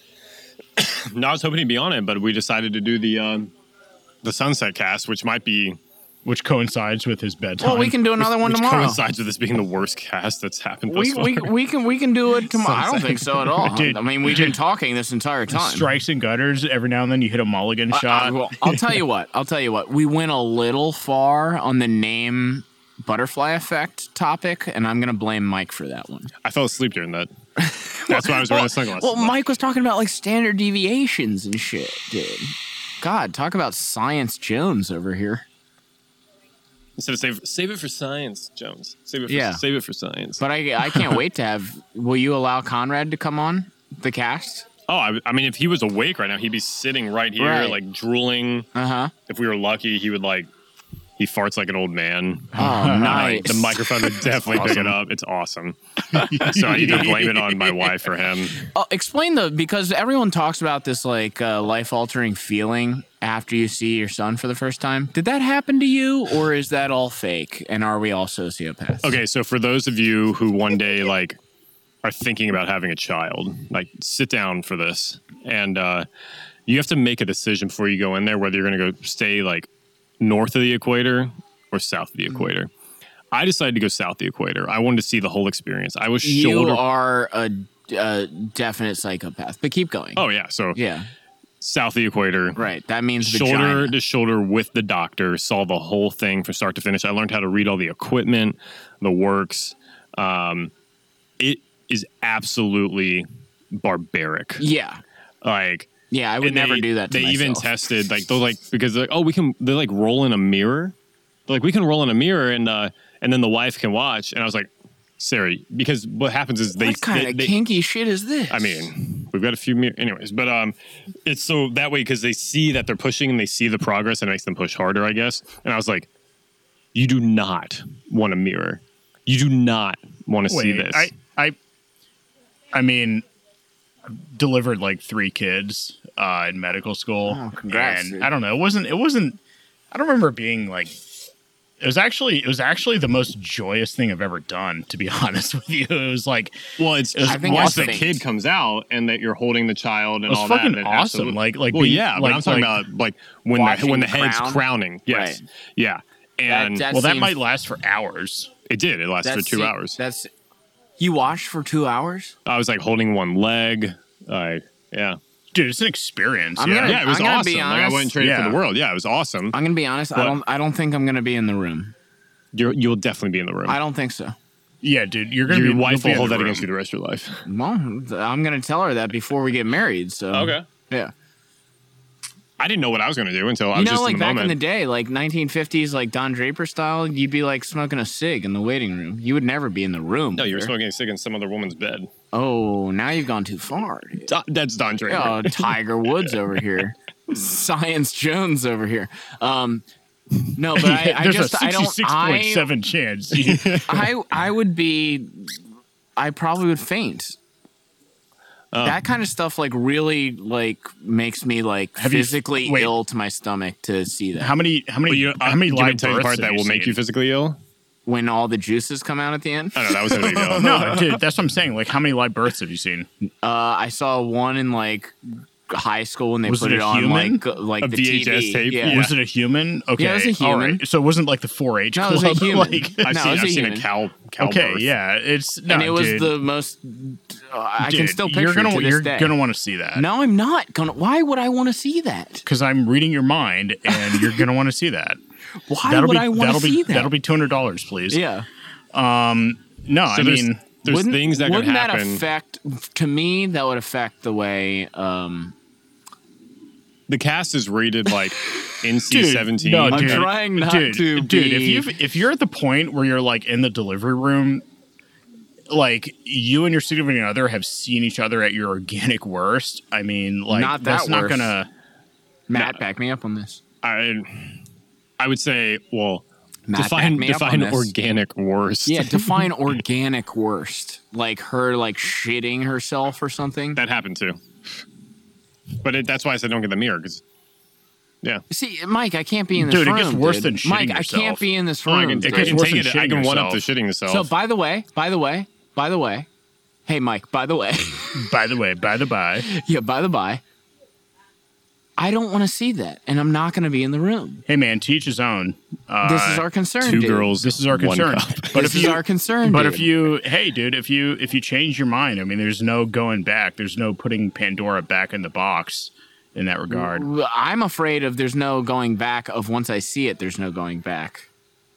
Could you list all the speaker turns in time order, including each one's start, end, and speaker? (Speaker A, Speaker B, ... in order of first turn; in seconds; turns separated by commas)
Speaker A: 0.8-3.5, Speaker A: 4.2-5.8, Speaker B: 6.2-8.0, Speaker C: 7.6-9.0, Speaker A: 8.2-11.5, Speaker C: 10.9-15.9, Speaker A: 12.4-13.7, Speaker B: 13.7-14.6, Speaker B: 15.5-18.4, Speaker C: 17.9-26.3, Speaker A: 26.4-27.3, Speaker C: 27.6-35.5, Speaker A: 28.1-29.4, Speaker A: 37.0-40.4, Speaker C: 39.3-39.6, Speaker C: 40.4-44.7, Speaker A: 44.9-48.7, Speaker C: 47.4-47.8, Speaker C: 48.8-49.1, Speaker A: 49.3-50.5, Speaker A: 51.2-58.6, Speaker C: 52.6-53.8, Speaker B: 52.6-55.0, Speaker B: 56.1-57.8, Speaker C: 58.6-69.2, Speaker A: 69.0-71.4, Speaker A: 72.0-76.1, Speaker A: 76.7-79.7, Speaker A: 80.2-82.7, Speaker A: 83.3-86.8, Speaker C: 86.2-90.2, Speaker A: 90.2-90.8, Speaker C: 90.8-91.1, Speaker A: 91.6-92.6, Speaker C: 92.6-93.9, Speaker A: 93.2-100.7, Speaker A: 101.4-104.6, Speaker C: 104.6-105.0, Speaker A: 105.4-105.9, Speaker C: 106.1-107.7, Speaker A: 106.4-110.9, Speaker A: 111.5-117.5, Speaker C: 116.8-118.9, Speaker A: 118.5-126.1, Speaker A: 127.0-131.1, Speaker B: 130.5-131.6, Speaker B: 132.7-133.2, Speaker B: 134.1-139.4, Speaker C: 137.3-138.3, Speaker B: 139.9-141.0, Speaker B: 141.8-146.6, Speaker A: 146.8-156.8, Speaker B: 147.1-148.1, Speaker C: 147.3-148.2, Speaker B: 150.3-152.8, Speaker C: 153.6-155.4, Speaker C: 156.5-157.4, Speaker B: 156.9-158.5, Speaker A: 158.7-160.0, Speaker C: 159.2-160.3, Speaker C: 161.0-162.3, Speaker A: 162.5-165.2, Speaker B: 165.5-167.0, Speaker C: 166.6-168.1, Speaker A: 166.8-169.6, Speaker B: 168.2-168.6, Speaker C: 169.5-171.9, Speaker A: 172.5-173.8, Speaker C: 173.7-174.3, Speaker B: 174.8-176.7, Speaker A: 175.5-177.4, Speaker C: 177.4-181.1, Speaker A: 180.3-180.6, Speaker A: 182.6-184.6, Speaker C: 183.7-190.7, Speaker A: 190.4-192.1, Speaker C: 192.3-194.3, Speaker A: 194.3-196.3, Speaker C: 195.1-199.8, Speaker C: 200.5-202.7, Speaker B: 200.7-203.8, Speaker A: 203.4-204.0, Speaker C: 203.9-205.6, Speaker C: 206.2-207.4, Speaker A: 208.7-209.0, Speaker C: 208.8-214.5, Speaker B: 212.0-212.9, Speaker B: 214.4-217.0, Speaker A: 215.1-217.6, Speaker C: 218.1-221.0, Speaker A: 219.8-221.0, Speaker B: 220.5-223.1, Speaker C: 223.4-225.2, Speaker C: 225.7-229.0, Speaker B: 226.5-227.4, Speaker A: 227.8-229.1, Speaker B: 228.8-233.1, Speaker C: 230.0-230.8, Speaker C: 231.9-233.8, Speaker A: 233.0-234.9, Speaker B: 234.4-236.4, Speaker C: 235.7-239.3, Speaker B: 237.8-240.1, Speaker C: 239.9-242.4, Speaker B: 242.4-245.2, Speaker C: 245.7-247.1, Speaker B: 245.8-248.2, Speaker C: 248.1-248.5, Speaker B: 248.9-250.7, Speaker A: 250.1-252.2, Speaker C: 250.8-255.6, Speaker A: 257.1-260.3, Speaker B: 259.1-264.6, Speaker C: 259.9-261.9, Speaker B: 265.7-271.7, Speaker C: 270.5-271.5, Speaker C: 272.5-273.6, Speaker A: 272.5-272.8, Speaker A: 273.8-274.6, Speaker A: 275.2-279.5, Speaker C: 276.7-277.9, Speaker C: 278.9-283.8, Speaker A: 283.8-284.4, Speaker A: 285.8-287.2, Speaker C: 288.5-292.6, Speaker B: 289.6-293.6, Speaker A: 292.2-294.3, Speaker C: 294.1-296.3, Speaker C: 296.9-298.3, Speaker B: 298.1-299.5, Speaker C: 299.5-300.4, Speaker C: 302.0-304.4, Speaker B: 304.5-306.5, Speaker C: 306.0-307.3, Speaker A: 306.8-308.7, Speaker B: 307.4-317.1, Speaker C: 308.5-309.9, Speaker C: 316.7-321.3